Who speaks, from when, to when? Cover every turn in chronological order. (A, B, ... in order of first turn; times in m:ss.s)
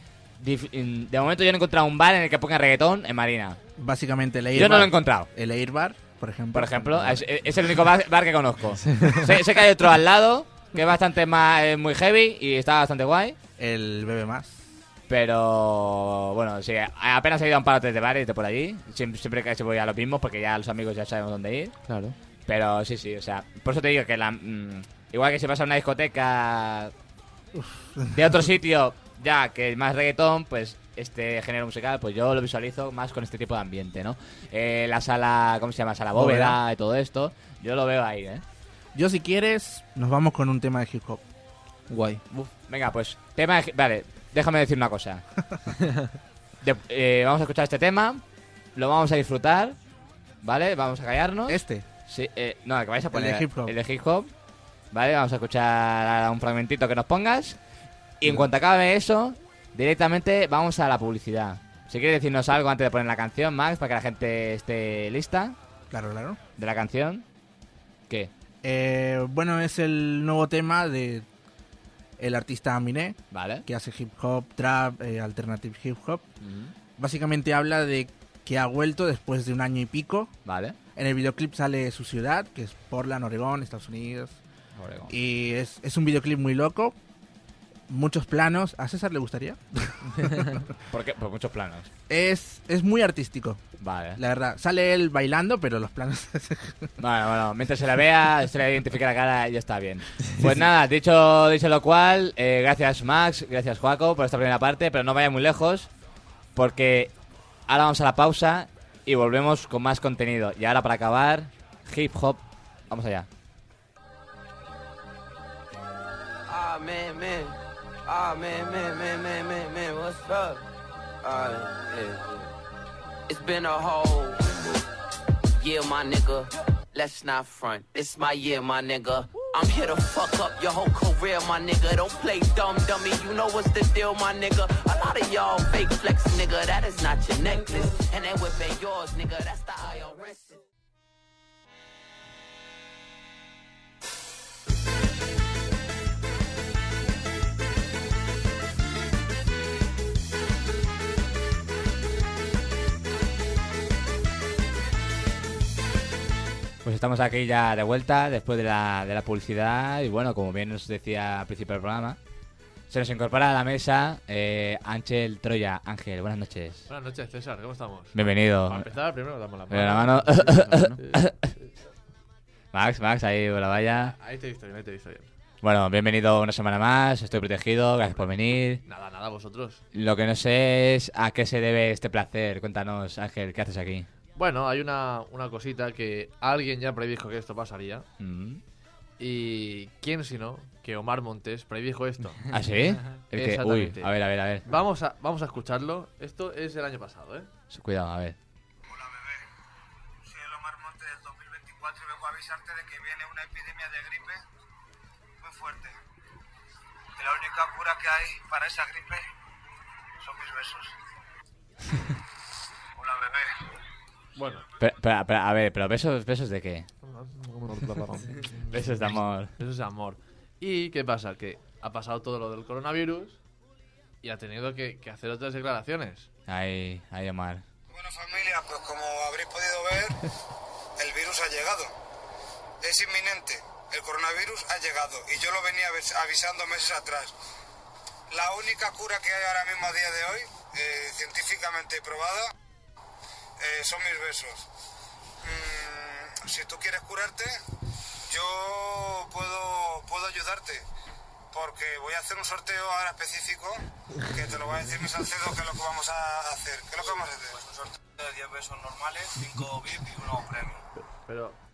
0:00.4-0:03.6 A
0:03.8-0:07.2 B
0:04.5-0:05.3 A
0:06.5-0:13.4 A
0:08.8-0:09.3 C
0:13.6-0:14.6 B
0:15.1-0:21.7 A
0:21.8-0:22.1 C
0:22.5-0:26.9 A
0:27.6-0:28.1 B
0:28.1-0:38.4 A
0:36.2-0:36.6 B
0:38.9-0:41.2 B
0:41.9-0:42.2 C
0:42.3-0:45.2 A
0:46.6-0:48.2 A
0:48.8-0:49.8 A
0:50.4-0:54.3 A
0:51.5-0:51.8 B
0:53.1-0:53.7 B
0:54.9-0:57.6 A
0:58.2-1:05.6 A
1:05.9-1:06.4 B
1:06.6-1:07.2 A
1:08.6-1:11.2 B
1:12.2-1:16.3 B
1:13.3-1:13.6 A
1:16.4-1:16.7 A
1:17.0-1:20.3 B
1:20.4-1:20.8 A
1:21.0-1:24.4 B
1:24.8-1:25.1 A
1:25.1-1:26.9 B
1:27.9-1:30.6 B
1:30.2-1:30.5 C
1:30.9-1:31.9 A
1:32.1-1:33.6 B
1:33.8-1:34.2 A
1:34.2-1:36.9 B
1:37.0-1:45.9 A
1:46.6-1:47.1 A
1:47.7-1:53.3 A
1:56.5-2:00.6 D
2:01.2-2:02.5 D
2:03.3-2:04.6 D
2:05.6-2:20.6 D
2:36.8-2:42.2 A
2:42.9-2:46.8 A
2:46.9-2:48.2 E
2:48.1-2:48.9 A
2:48.7-2:51.7 E
2:49.7-2:51.5 A
2:50.4-2:51.0 C
2:52.7-2:54.1 A
2:54.0-2:55.3 E
2:55.6-2:58.8 A
2:58.8-2:59.8 E
2:59.9-3:04.1 A
3:04.4-3:08.0 E
3:08.2-3:08.6 A
3:09.2-3:12.5 E
3:12.5-3:14.7 A
3:13.3-3:14.1 E
3:14.6-3:17.5 E
3:17.7-3:18.4 A
3:18.9-3:19.4 F
3:20.2-3:24.4 F
3:25.4-3:25.9 F
3:27.2-3:29.2 F
3:30.2-3:30.9 F
3:33.0-3:33.5 F
3:34.3-3:34.6 E
3:34.8-3:36.9 A
3:37.0-3:43.4 E
3:38.7-3:39.6 A
3:44.2-3:46.3 E
3:46.5-3:47.6 A
3:47.9-3:50.2 F
3:51.0-3:51.9 F
3:52.8-3:57.4 F
3:58.3-4:02.5 F
4:03.6-4:04.7 F
4:05.4-4:07.6 F
4:08.3-4:10.8 F
4:11.5-4:20.7 F
4:21.2-4:21.6 E